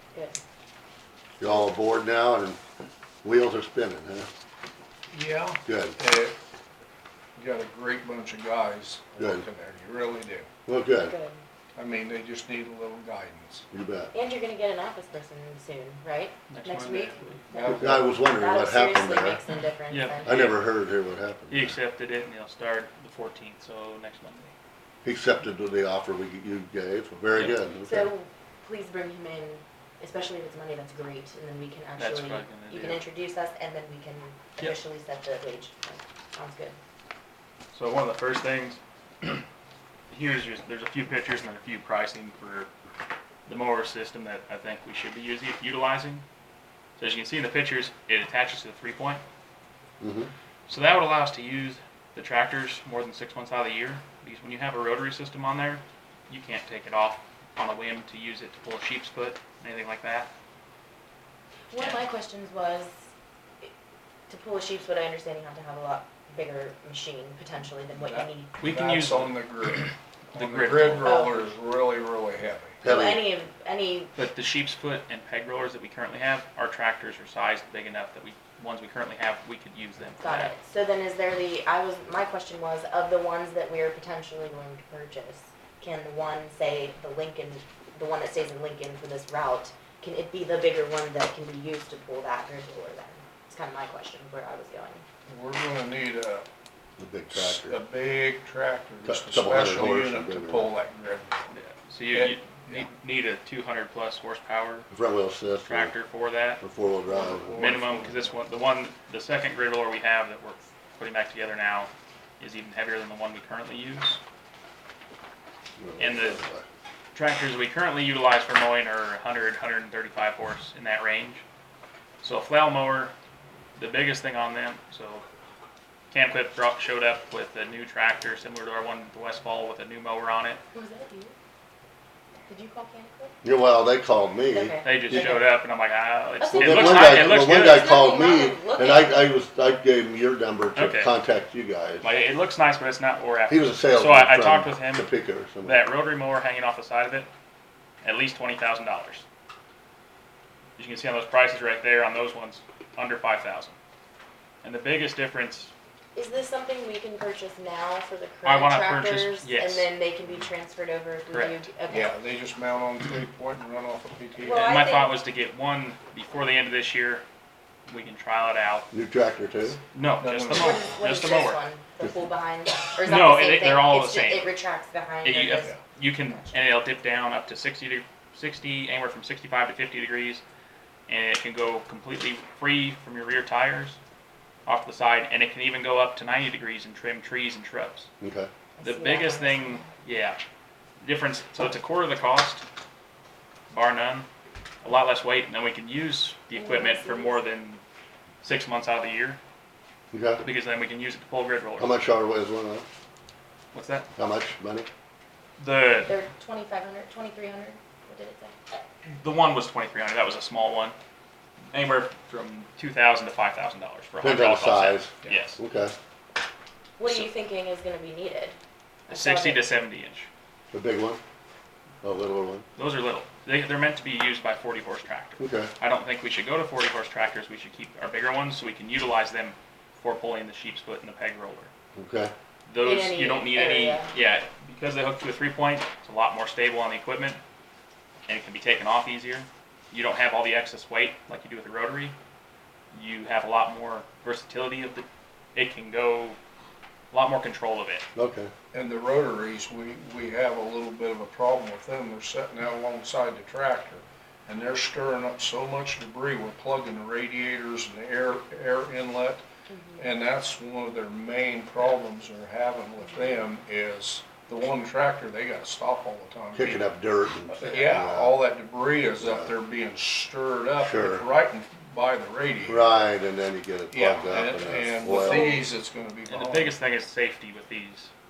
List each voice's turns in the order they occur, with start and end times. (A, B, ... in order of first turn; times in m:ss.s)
0:00.1-0:00.4 A
0:01.4-0:02.6 B
0:03.2-0:04.3 B
0:05.1-0:06.3 C
0:05.6-0:06.0 B
0:07.4-0:10.5 C
0:09.2-0:09.4 B
0:10.7-0:11.1 B
0:11.0-0:11.4 A
0:11.8-0:13.7 C
0:13.7-0:14.1 B
0:14.1-0:17.8 A
0:16.5-0:17.4 D
0:17.5-0:18.2 C
0:17.7-0:19.4 B
0:18.4-0:20.3 A
0:19.9-0:20.6 D
0:20.2-0:21.8 B
0:21.5-0:24.5 D
0:25.0-0:28.1 B
0:27.8-0:36.8 A
0:32.0-0:33.0 D
0:37.7-0:39.4 D
0:40.1-0:42.7 D
0:43.5-0:46.2 D
0:47.0-0:49.2 D
0:50.0-0:50.3 B
0:50.7-1:00.3 D
1:01.7-1:03.0 A
1:01.8-1:02.0 D
1:04.3-1:08.6 A
1:08.0-1:12.8 C
1:08.6-1:09.8 D
1:10.4-1:11.1 D
1:11.0-1:11.4 A
1:12.8-1:13.2 B
1:12.8-1:14.1 A
1:14.2-1:20.5 D
1:20.2-1:35.0 A
1:35.3-1:36.5 C
1:37.0-1:37.8 B
1:37.3-1:41.4 C
1:39.0-1:40.7 B
1:41.5-1:44.9 D
1:42.1-1:42.9 C
1:44.9-1:45.9 B
1:45.6-1:46.6 D
1:46.6-1:47.8 B
1:47.1-1:48.4 C
1:47.6-1:54.2 D
1:55.8-1:56.7 B
1:56.0-1:56.4 D
1:57.1-2:01.4 D
2:02.2-2:03.1 D
2:03.8-2:05.2 D
2:06.1-2:10.6 D
2:10.7-2:11.3 A
2:12.5-2:13.4 A
2:13.4-2:15.3 B
2:14.5-2:15.5 A
2:14.8-2:17.9 D
2:16.4-2:19.3 A
2:16.6-2:22.0 B
2:20.8-2:21.1 D
2:22.0-2:25.1 D
2:23.5-2:25.8 B
2:25.6-2:27.3 D
2:28.0-2:29.2 D
2:30.8-2:33.8 D
2:34.6-2:35.7 D
2:36.2-2:42.1 A
2:38.4-2:39.9 D
2:41.3-2:41.6 D
2:41.9-2:44.7 C
2:44.4-2:45.1 A
2:44.6-2:47.2 D
2:47.9-2:48.9 D
2:48.9-2:49.8 B
2:49.9-2:51.6 D
2:50.2-2:50.9 C
2:50.5-2:55.8 A
2:53.0-2:54.5 D
2:55.2-3:00.4 D
3:01.1-3:04.0 D
3:04.7-3:08.1 D
3:08.2-3:08.5 B
3:08.8-3:09.9 A
3:08.8-3:10.4 D
3:11.0-3:12.6 D
3:13.7-3:14.3 D
3:14.8-3:17.8 D
3:16.5-3:17.4 A
3:18.4-3:19.4 D
3:20.1-3:20.4 B
3:20.4-3:22.0 D
3:21.8-3:22.9 B
3:23.7-3:24.1 D
3:24.2-3:24.9 B
3:25.6-3:26.1 D
3:26.1-3:28.6 A
3:29.2-3:31.0 D
3:31.7-3:35.6 D
3:34.2-3:35.9 B
3:37.0-3:38.6 A
3:39.1-3:39.7 A
3:39.1-3:40.3 D
3:40.7-3:41.2 B
3:42.0-3:42.7 B
3:42.8-3:51.7 D
3:45.4-3:45.7 B
3:52.0-3:52.3 B
3:52.7-3:57.4 D
3:52.8-3:54.1 A
3:58.3-4:02.2 D
4:02.9-4:06.4 D
4:07.1-4:08.0 D
4:08.2-4:08.5 B
4:08.7-4:19.4 C
4:19.7-4:20.1 A
4:20.0-4:26.8 C
4:23.0-4:23.3 A
4:26.6-4:28.4 B
4:27.5-4:33.0 C
4:29.2-4:29.5 B
4:30.8-4:31.2 B
4:32.7-4:35.6 B
4:33.9-4:36.8 C
4:35.2-4:35.6 A
4:36.3-4:38.1 D